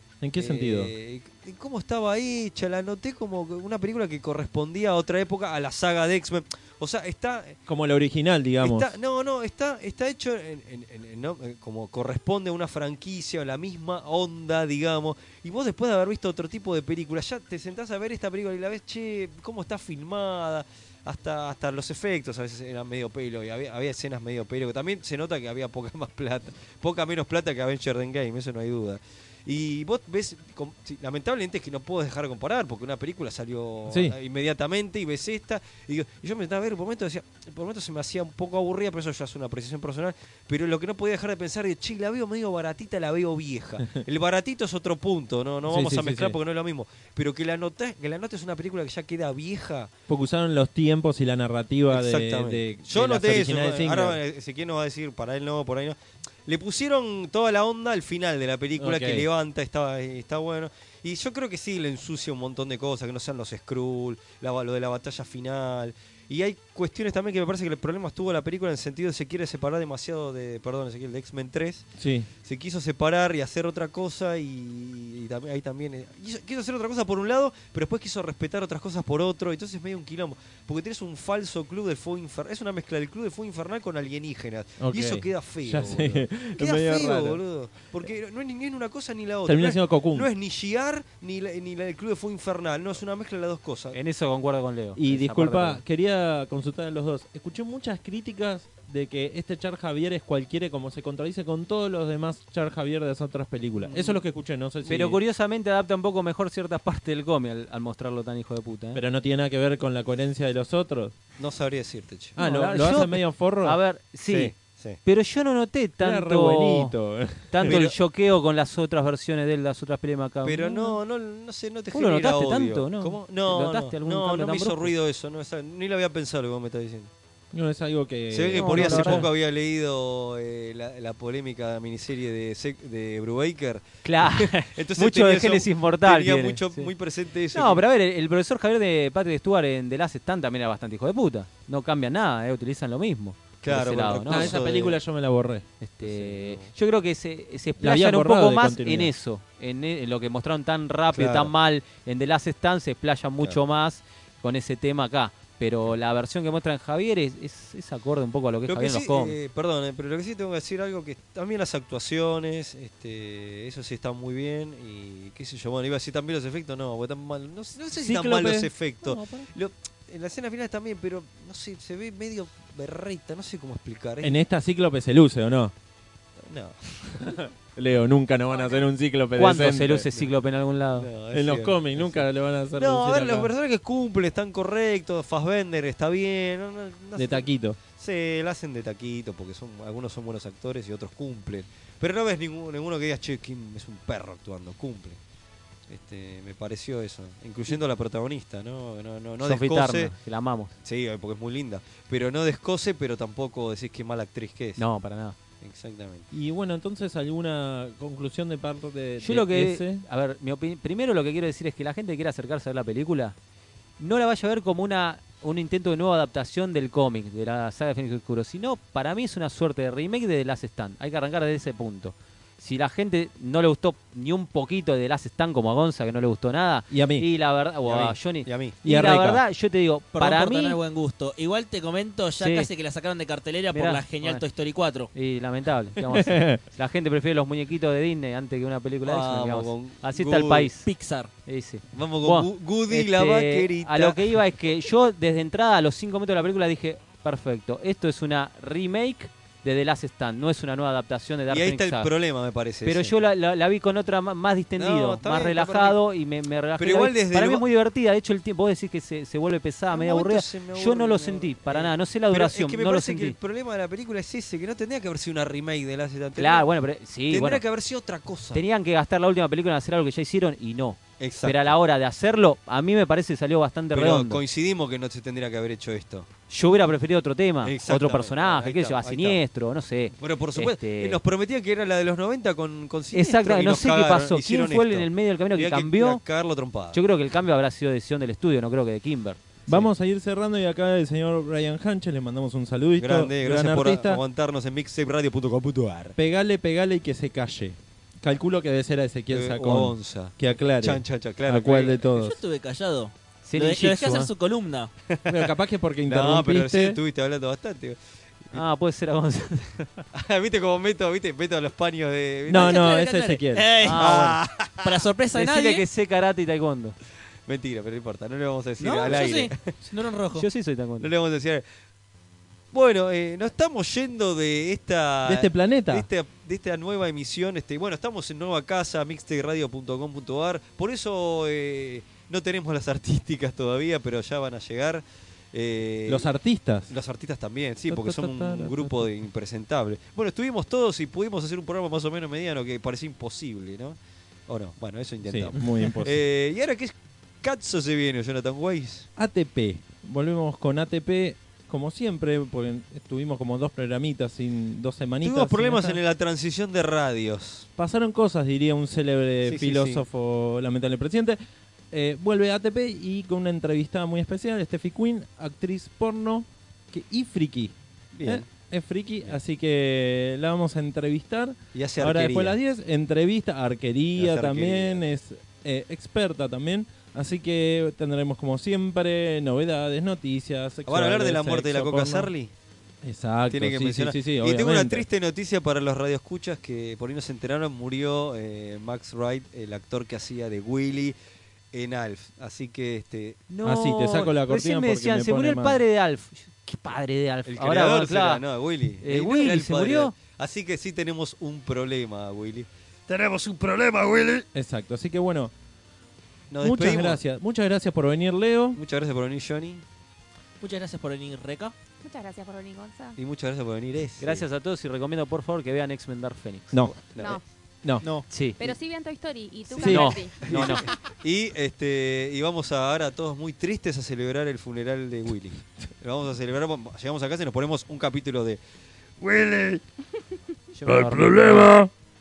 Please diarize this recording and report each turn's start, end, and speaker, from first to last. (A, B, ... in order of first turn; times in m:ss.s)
0:00.2-0:00.9 A
0:00.4-0:07.6 B
0:07.7-0:08.9 A
0:08.6-0:49.9 B
0:33.9-0:34.2 A
0:45.7-0:46.4 A
0:50.1-0:54.2 A
0:51.9-1:11.9 B
0:58.8-0:59.3 A
1:12.0-1:12.3 A
1:12.4-1:34.0 B
1:24.8-1:27.4 A
1:29.5-1:30.3 A
1:33.9-1:35.8 C
1:35.0-1:45.2 A
1:43.8-1:44.2 B
1:44.8-1:49.0 C
1:48.9-1:51.1 A
1:51.4-1:52.4 B
1:52.4-1:53.8 A
1:52.4-1:57.0 C
1:54.3-1:55.0 B
1:56.0-1:57.8 A
1:57.5-2:01.0 C
1:57.6-1:58.0 B
2:00.4-2:07.1 B
2:01.9-2:04.9 C
2:07.5-2:09.3 A
2:08.3-2:17.8 B
2:08.5-2:09.3 C
2:14.0-2:16.9 C
2:17.5-2:24.7 C
2:23.6-2:25.0 B
2:24.2-2:25.7 A
2:25.8-2:39.4 C
2:26.0-2:26.7 B
2:27.8-2:29.1 A
2:31.1-2:31.5 B
2:38.7-2:54.4 B
2:48.0-2:49.5 C
2:54.2-2:55.7 A
2:56.4-2:57.4 B
2:57.3-3:00.1 A
2:59.4-3:01.1 C
3:01.0-3:15.2 B
3:01.3-3:03.5 A
3:07.2-3:07.8 A
3:15.9-3:20.2 B
3:19.4-3:20.7 C
3:20.8-3:24.8 B
3:24.8-3:25.4 C
3:25.6-3:26.3 B
3:26.3-3:30.1 A
3:29.2-3:33.4 C
3:34.0-3:50.8 C
3:46.9-3:47.3 A
3:47.9-3:48.8 B
3:48.8-3:49.4 A
3:50.2-3:55.1 D
3:52.4-3:52.7 C
3:53.7-3:54.4 C
3:55.1-4:00.9 C
3:56.0-3:56.6 A
3:59.0-4:00.7 B
4:00.8-4:01.3 D
4:01.5-4:12.1 C
4:01.9-4:04.4 B
4:11.5-4:13.2 B
4:12.8-4:23.4 C
4:14.8-4:16.0 B
4:16.8-4:17.6 B
4:19.9-4:26.7 B
4:26.4-4:27.6 C
4:27.3-4:28.6 B
4:28.5-4:34.4 C
4:31.2-4:31.8 B
4:33.9-4:36.3 B
4:36.5-4:41.2 C
4:37.6-4:39.4 B
4:40.1-4:47.0 B
4:43.1-4:46.2 C
4:46.9-4:49.4 C
4:49.7-4:54.2 A
4:53.0-4:56.2 B
4:56.2-5:02.4 A
4:59.3-5:02.0 B
5:01.7-5:04.9 D
5:03.4-5:04.3 C
5:05.1-5:08.6 B
5:05.3-5:07.0 A
5:08.5-5:10.0 C
5:10.1-5:12.9 B
5:12.5-5:13.7 A
5:12.5-5:14.2 D
5:13.8-5:14.4 C
5:13.9-5:15.0 B
5:14.8-5:15.8 D
5:15.3-5:17.0 C
5:17.5-5:19.6 B
5:18.8-5:20.5 D
5:20.4-5:21.1 C
5:21.0-5:21.6 B
5:22.7-5:36.3 B
5:25.2-5:26.1 A
5:36.1-5:36.9 A
5:36.9-5:44.0 B
5:37.9-5:39.0 A
5:44.5-5:49.1 B
5:45.2-5:46.2 A
5:49.2-5:56.0 A
5:55.2-5:57.7 B
5:57.8-6:01.4 A
5:59.4-6:00.1 B
6:01.9-6:22.3 A
6:08.1-6:08.5 B
6:11.7-6:12.6 B
6:14.2-6:15.0 B
6:20.9-6:22.5 B
6:23.0-6:25.0 A
6:23.5-6:31.2 B
6:31.7-6:33.4 B
6:33.5-6:38.4 C
6:33.6-6:35.8 A
6:37.5-6:44.5 B
6:39.0-6:40.2 C
6:44.5-6:45.5 A
6:46.5-6:47.2 B
6:46.6-6:48.8 A
6:48.8-6:49.8 B
6:50.6-6:51.7 D
6:52.0-6:53.2 E
6:53.2-6:54.5 B
6:54.2-6:56.9 C
6:56.7-6:57.1 A
6:57.1-6:57.4 B
6:57.2-6:57.4 E
6:57.8-6:58.1 A
6:58.3-6:58.6 C
6:58.6-7:01.0 E
6:59.8-7:00.3 A
6:59.8-7:00.9 C
7:00.4-7:08.6 B
7:09.2-7:09.8 B
7:10.7-7:11.7 C
7:10.8-7:11.9 A